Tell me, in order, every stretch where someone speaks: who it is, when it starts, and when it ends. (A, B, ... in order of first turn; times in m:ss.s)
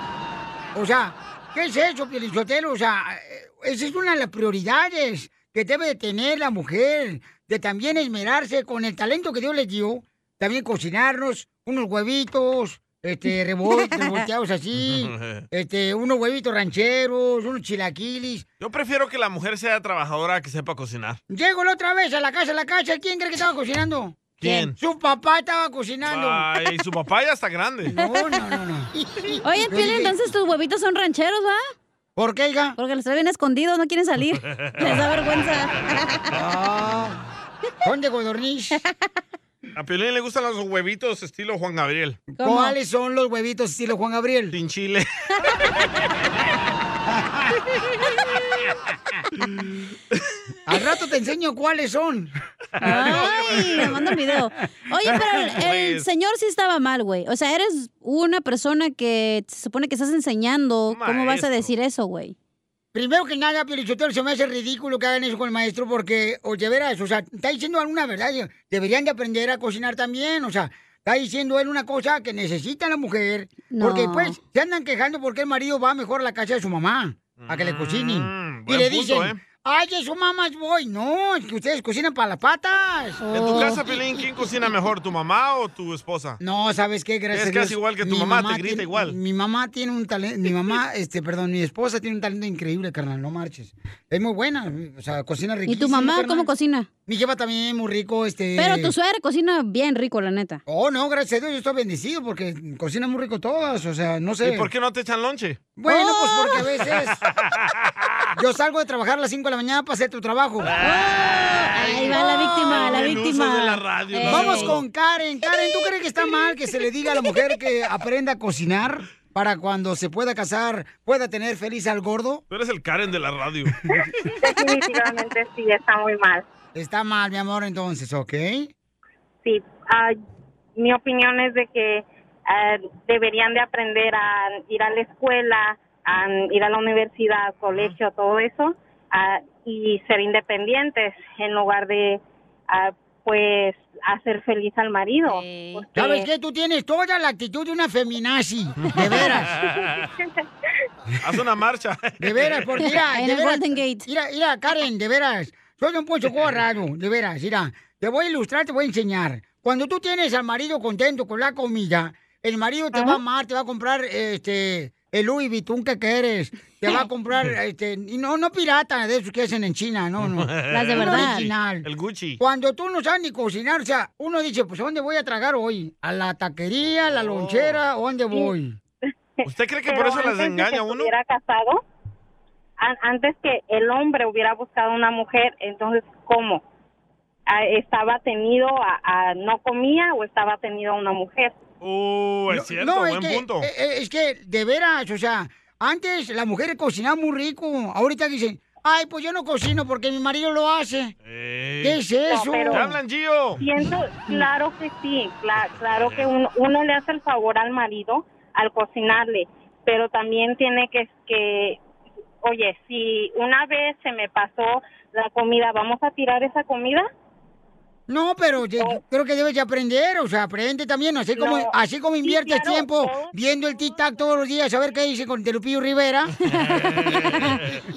0:00.8-0:18.4 A
0:14.8-0:15.5 B
0:18.6-0:21.2 B
0:21.3-0:26.5 A
0:24.4-0:24.8 B
0:26.0-0:27.9 B
0:27.9-0:30.2 A
0:28.0-0:28.3 C
0:29.4-0:31.6 C
0:32.2-0:32.8 A
0:32.8-0:36.3 C
0:34.5-0:35.0 B
0:36.3-0:37.2 A
0:37.8-0:38.8 A
0:39.8-0:42.2 B
0:42.4-0:42.8 C
0:42.4-0:44.6 A
0:44.5-0:45.1 B
0:47.1-0:47.6 A
0:50.7-0:52.3 A
0:52.8-0:54.1 B
0:52.8-1:02.4 C
0:55.4-0:56.0 B
1:00.9-1:01.7 B
1:02.9-1:23.2 A
1:13.7-1:14.4 C
1:17.4-1:19.4 B
1:23.2-1:23.8 C
1:23.3-1:26.4 B
1:26.4-1:36.5 A
1:27.3-1:29.2 B
1:35.7-1:36.9 C
1:37.1-1:38.9 A
1:38.6-1:40.6 C
1:40.7-1:44.7 A
1:44.4-1:45.6 B
1:45.8-1:47.2 A
1:45.9-1:46.6 C
1:47.1-1:48.3 B
1:48.4-1:50.7 A
1:50.7-1:54.8 B
1:50.8-1:54.8 C
1:54.3-2:02.4 A
2:02.5-2:03.8 B
2:04.4-2:06.5 D
2:06.8-2:08.7 A
2:09.4-2:10.2 D
2:10.8-2:26.3 D
2:17.7-2:18.0 B
2:25.3-2:25.8 C
2:26.0-2:29.6 A
2:28.8-2:30.1 B
2:30.0-2:30.3 D
2:31.2-2:32.8 B
2:32.2-2:51.9 A
2:32.8-2:34.1 C
2:42.9-2:43.2 C
2:50.2-2:52.4 B
2:50.7-2:51.5 C
2:52.4-2:58.8 A
2:57.1-2:57.8 B
2:59.4-3:01.8 D
2:59.4-3:01.1 B
3:02.8-3:06.6 D
3:07.5-3:11.6 D
3:11.8-3:13.7 B
3:12.5-3:21.2 A
3:21.2-3:22.0 B
3:21.8-3:22.9 A
3:22.3-3:22.8 D
3:22.7-3:23.6 B
3:23.6-3:31.8 D
3:25.6-3:26.3 B
3:32.4-3:37.1 D
3:38.1-3:46.3 A
3:41.4-3:43.4 D
3:46.5-3:47.8 B
3:46.5-3:47.6 C